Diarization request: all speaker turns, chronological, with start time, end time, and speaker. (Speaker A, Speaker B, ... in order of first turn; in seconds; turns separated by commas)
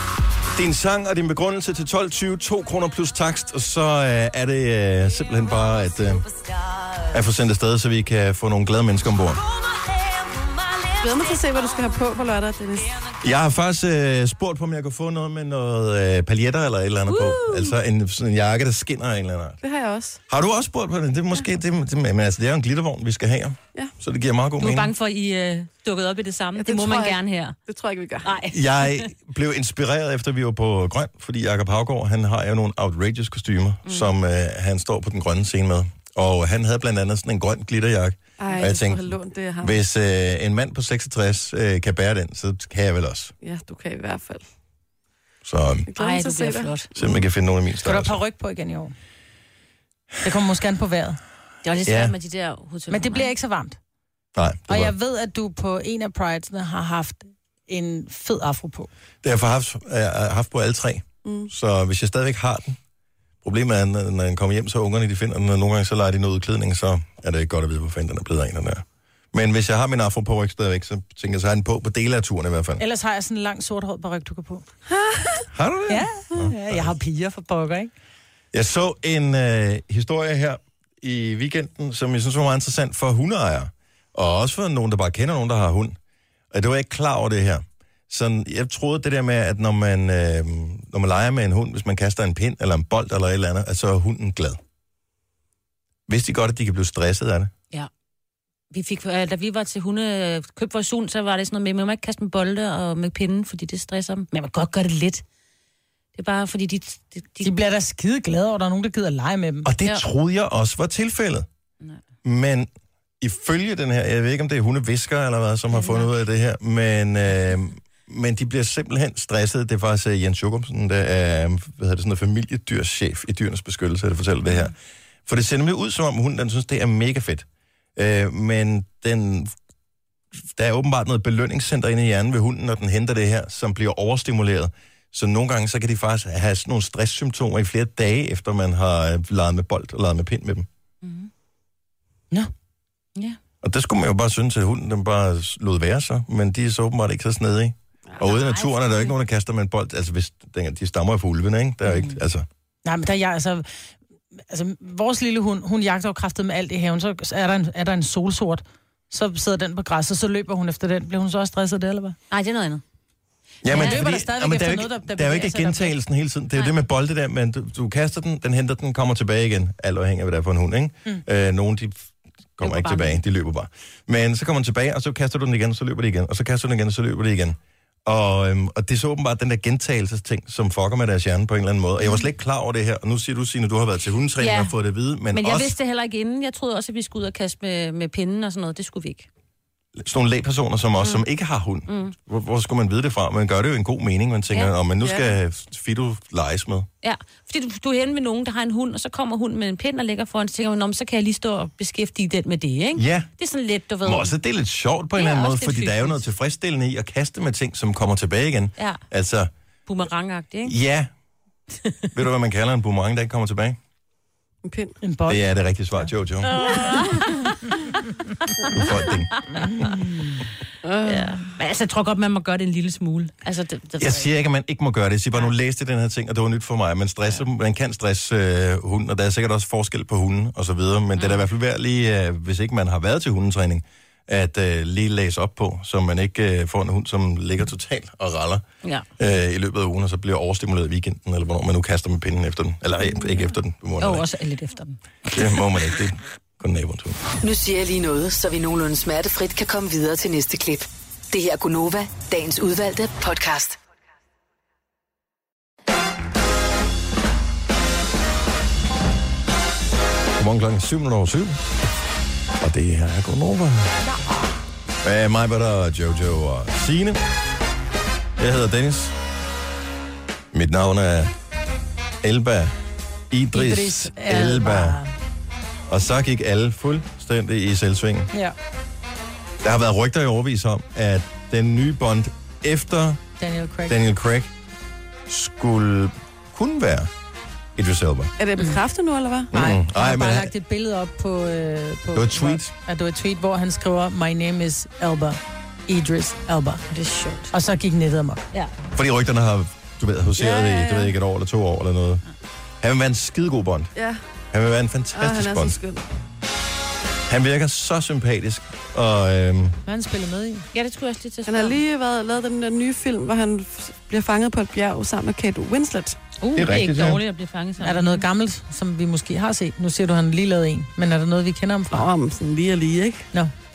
Speaker A: 0.5-6.2, Speaker A: 7.1-9.4, Speaker B: 11.0-12.9, Speaker A: 13.2-19.6, Speaker C: 17.1-17.8, Speaker B: 19.6-20.2, Speaker A: 20.3-24.9, Speaker C: 24.6-27.6, Speaker B: 26.6-28.3, Speaker C: 28.2-29.1, Speaker A: 28.5-43.3, Speaker C: 33.9-34.1, Speaker B: 38.4-39.8, Speaker B: 43.4-44.4, Speaker A: 45.4-45.9, Speaker B: 45.9-46.7, Speaker C: 46.0-46.9, Speaker A: 46.9-48.2, Speaker D: 47.8-48.9, Speaker D: 50.2-51.2, Speaker C: 51.6-53.3, Speaker A: 51.8-52.1, Speaker D: 52.9-53.8, Speaker A: 54.3-54.9, Speaker D: 54.7-58.9, Speaker A: 59.2-62.8, Speaker B: 61.2-61.5, Speaker A: 63.4-72.8, Speaker D: 72.8-74.6, Speaker B: 74.9-75.4, Speaker A: 75.5-76.9, Speaker D: 75.9-77.9, Speaker A: 78.5-86.0, Speaker A: 86.5-94.6, Speaker A: 96.1-97.5, Speaker C: 98.7-105.2, Speaker C: 106.1-107.5, Speaker D: 107.4-109.7, Speaker A: 109.6-111.5, Speaker A: 112.2-112.7, Speaker A: 113.2-124.7, Speaker C: 115.7-116.1, Speaker A: 125.3-129.5, Speaker A: 130.5-140.7, Speaker C: 141.0-141.3, Speaker A: 143.6-152.4, Speaker C: 148.2-148.8, Speaker D: 152.8-153.7, Speaker D: 154.5-162.2, Speaker C: 162.3-162.8, Speaker A: 163.6-185.7, Speaker D: 163.7-165.9, Speaker C: 163.7-164.0, Speaker C: 172.6-173.2, Speaker C: 184.4-184.7, Speaker C: 185.3-189.3, Speaker A: 189.9-196.9, Speaker C: 191.9-192.1, Speaker B: 195.0-195.3, Speaker C: 197.0-204.3, Speaker A: 202.9-203.3, Speaker A: 204.0-209.5, Speaker C: 205.2-206.2, Speaker C: 209.9-210.7, Speaker A: 210.6-211.1, Speaker A: 212.1-213.8, Speaker B: 214.6-215.0, Speaker D: 215.0-215.4, Speaker A: 215.3-216.7, Speaker C: 216.6-217.3, Speaker A: 218.7-219.3, Speaker D: 219.7-220.3, Speaker B: 220.8-221.4, Speaker C: 221.0-224.3, Speaker A: 224.0-238.6, Speaker C: 231.2-231.4, Speaker A: 239.2-244.2, Speaker C: 244.0-245.4, Speaker A: 245.3-247.2, Speaker E: 247.4-253.8, Speaker A: 260.4-261.6, Speaker A: 262.6-263.9, Speaker A: 265.0-267.2, Speaker A: 268.4-269.1, Speaker A: 270.5-271.3, Speaker A: 272.2-272.7, Speaker A: 273.3-275.0, Speaker D: 273.5-275.1, Speaker A: 275.9-278.3, Speaker A: 279.6-283.2, Speaker D: 283.4-284.0, Speaker A: 283.9-284.5, Speaker A: 285.3-287.1, Speaker A: 287.8-288.3, Speaker B: 288.4-289.5, Speaker A: 289.5-290.5, Speaker D: 289.5-296.8, Speaker A: 292.1-292.7, Speaker C: 296.9-297.5, Speaker D: 297.5-298.4, Speaker A: 298.9-302.2, Speaker B: 300.4-301.1, Speaker A: 302.8-303.9, Speaker B: 303.9-304.2, Speaker A: 304.5-305.8, Speaker B: 305.1-306.0, Speaker A: 307.3-309.8, Speaker D: 309.9-310.6, Speaker C: 310.7-311.8, Speaker B: 311.4-316.2, Speaker C: 316.4-318.2, Speaker A: 316.5-317.2, Speaker D: 317.8-322.1, Speaker B: 321.9-323.3